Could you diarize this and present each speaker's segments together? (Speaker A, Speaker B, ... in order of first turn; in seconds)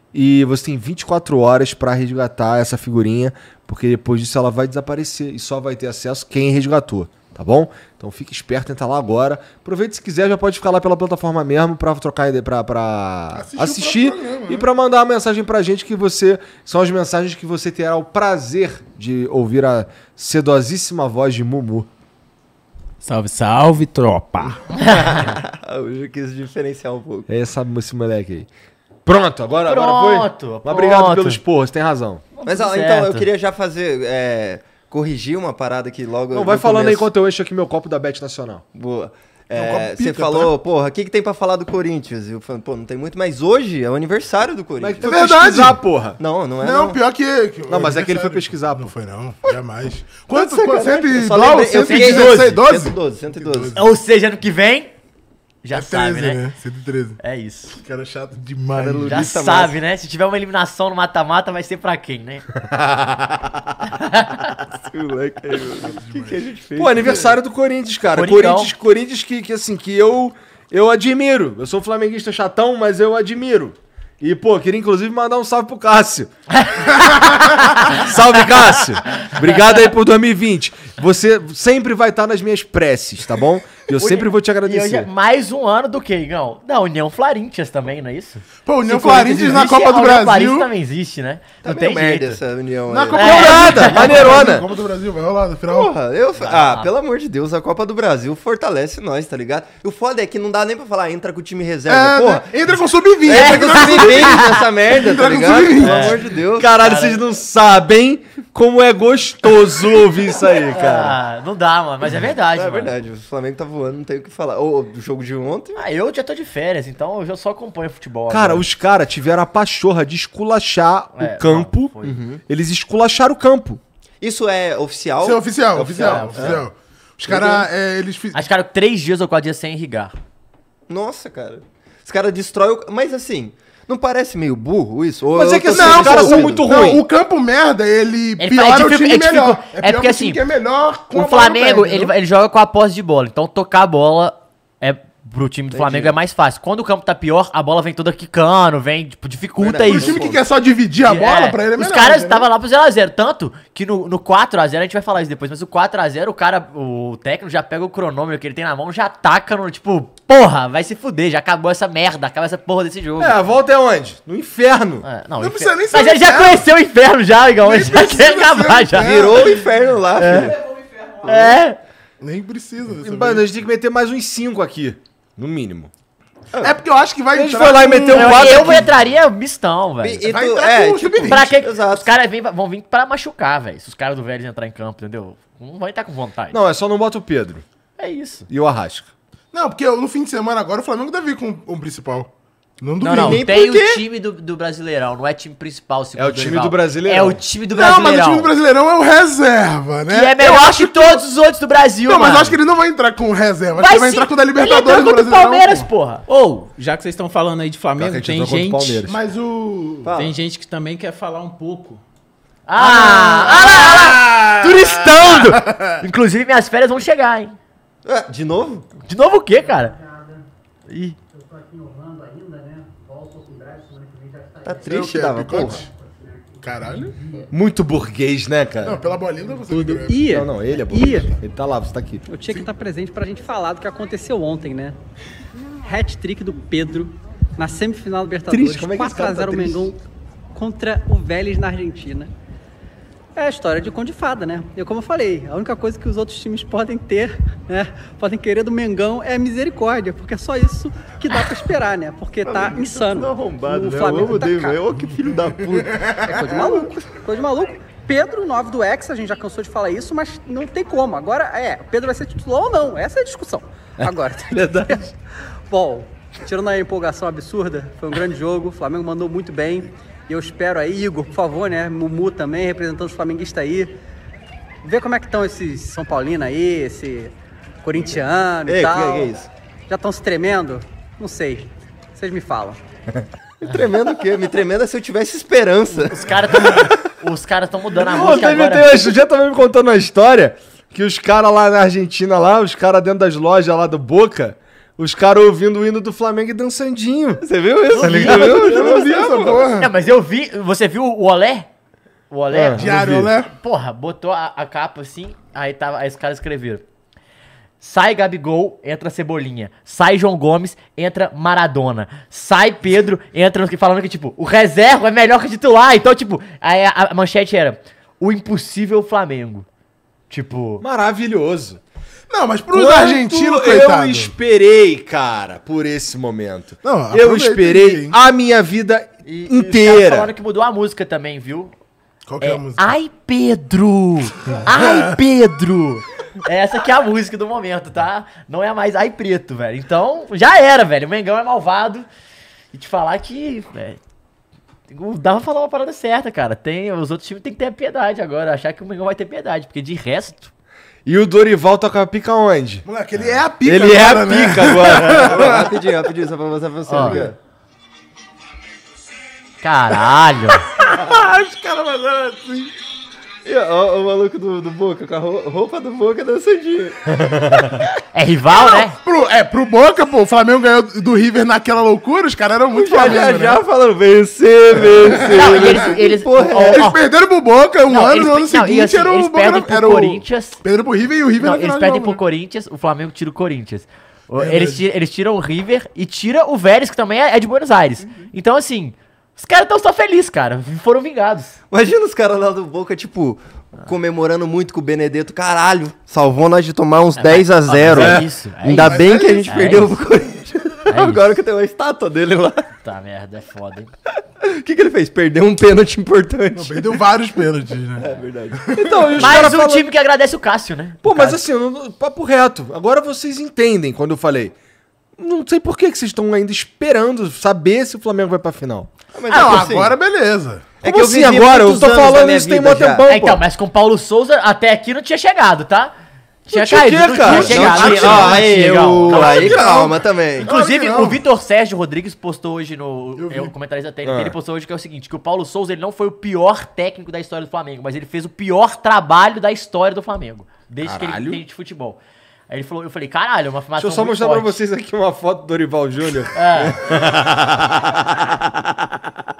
Speaker A: 0.1-21.9, 27.3-28.5, 29.1-32.2, 36.3-38.6, 44.8-46.2, 47.7-48.9, 62.6-63.6, 66.8-76.3, 77.8-85.1, 93.2-94.7, 106.6-111.2, 118.3-121.9, 122.5-123.8, 135.3-137.0, 163.2-165.1, 173.0-175.9, 177.3-179.0, 186.5-187.6, 188.5-189.1, 196.2-197.4, 208.0-209.2, 227.5-229.0, 230.3-232.3, 238.5-239.9, 288.0-297.4, 298.0-298.8, 302.5-303.3, 320.8-321.8, 322.7-330.3, 351.1-352.9, 353.6-355.5, 397.9-398.2, 408.8-409.9, 411.0-414.6, 415.2-418.9, 420.8-423.4, 426.5-429.8, 434.0-434.4, 440.8-441.4, 443.8-448.9
Speaker B: 13.3-14.7, 39.5-40.5, 45.0-45.8, 46.6-53.8, 55.7-57.2, 57.8-59.3, 65.8-66.4, 88.7-90.7, 92.9-95.9, 101.9-106.2, 125.2-128.4, 135.7-142.1, 149.8-152.5, 165.4-166.7, 167.6-169.6, 172.2-173.5, 176.6-178.9, 180.2-181.5, 189.5-193.4, 197.7-201.3, 202.1-205.9, 209.1-210.1, 212.8-216.0, 224.8-225.9, 226.6-227.2, 228.8-230.3, 256.0-256.4, 298.1-299.9, 302.8-303.5, 322.3-324.3, 326.8-328.1, 332.3-332.8, 334.7-335.1, 352.9-355.7, 360.8-362.7, 368.7-373.6, 374.9-375.9, 376.6-382.2, 384.4-384.8, 398.7-399.8, 406.6-408.1, 419.3-420.7, 428.1-428.4, 429.1-431.2, 433.2-433.5
Speaker C: 23.0-24.6, 206.3-209.1, 210.1-212.0
Speaker D: 24.9-25.2, 29.7-31.4, 32.4-33.3, 51.8-52.6, 53.8-54.9, 55.6-56.4, 57.2-57.8, 59.0-62.5, 63.9-64.5, 68.1-68.7, 76.5-78.1, 84.0-92.4, 93.1-94.1, 96.4-96.9, 103.3-104.5, 105.8-106.2, 106.8-107.2, 110.7-112.9, 115.8-118.7, 121.2-122.2, 126.0-126.6, 128.3-130.1, 138.4-140.4, 141.1-150.2, 151.0-163.4, 165.0-169.3, 170.2-170.6, 171.2-171.8, 178.1-180.3, 181.2-186.6, 188.0-188.5, 193.0-198.5, 200.1-202.6, 203.8-206.2, 212.7-217.6, 219.1-220.0, 220.9-221.2, 286.0-289.1, 297.9-298.9, 299.8-301.7, 302.3-302.9, 303.6-306.8, 307.8-319.7, 320.3-320.8, 329.3-331.7, 332.4-342.1, 342.7-344.0, 344.9-350.5, 356.9-357.2, 359.6-360.6, 368.1-369.0, 375.3-377.0, 377.9-380.6, 381.4-391.6, 397.2-400.0, 400.9-401.3, 402.8-403.9, 409.2-411.4, 419.3-419.6, 423.1-425.9, 426.4-429.6, 430.4-444.6, 446.3-446.8
Speaker E: 25.0-27.3, 32.5-37.1, 38.7-45.2, 46.2-47.0, 50.3-53.8, 58.7-59.8, 64.9-67.3, 91.6-93.5, 95.7-102.5, 103.2-107.0, 112.5-115.8, 122.0-122.4, 124.2-126.6, 127.3-127.7, 130.9-136.7, 145.7-146.2, 149.6-150.4, 169.0-170.6, 171.2-171.6, 180.0-182.1, 193.0-194.0, 210.1-210.4, 218.1-218.9, 224.6-225.8, 252.4-256.1, 278.7-279.5, 283.6-286.8, 297.4-299.8, 355.1-357.4, 363.4-367.0, 372.7-376.9, 391.7-402.7, 404.4-407.0, 408.0-409.5, 419.1-420.0, 420.8-423.0, 427.2-430.5
Speaker F: 220.1-220.3, 221.4-224.7, 225.9-227.5, 229.7-231.3, 232.3-235.0, 235.8-240.0, 240.5-242.3, 243.4-254.8, 255.8-265.2, 265.7-273.9, 274.8-279.3, 279.9-282.8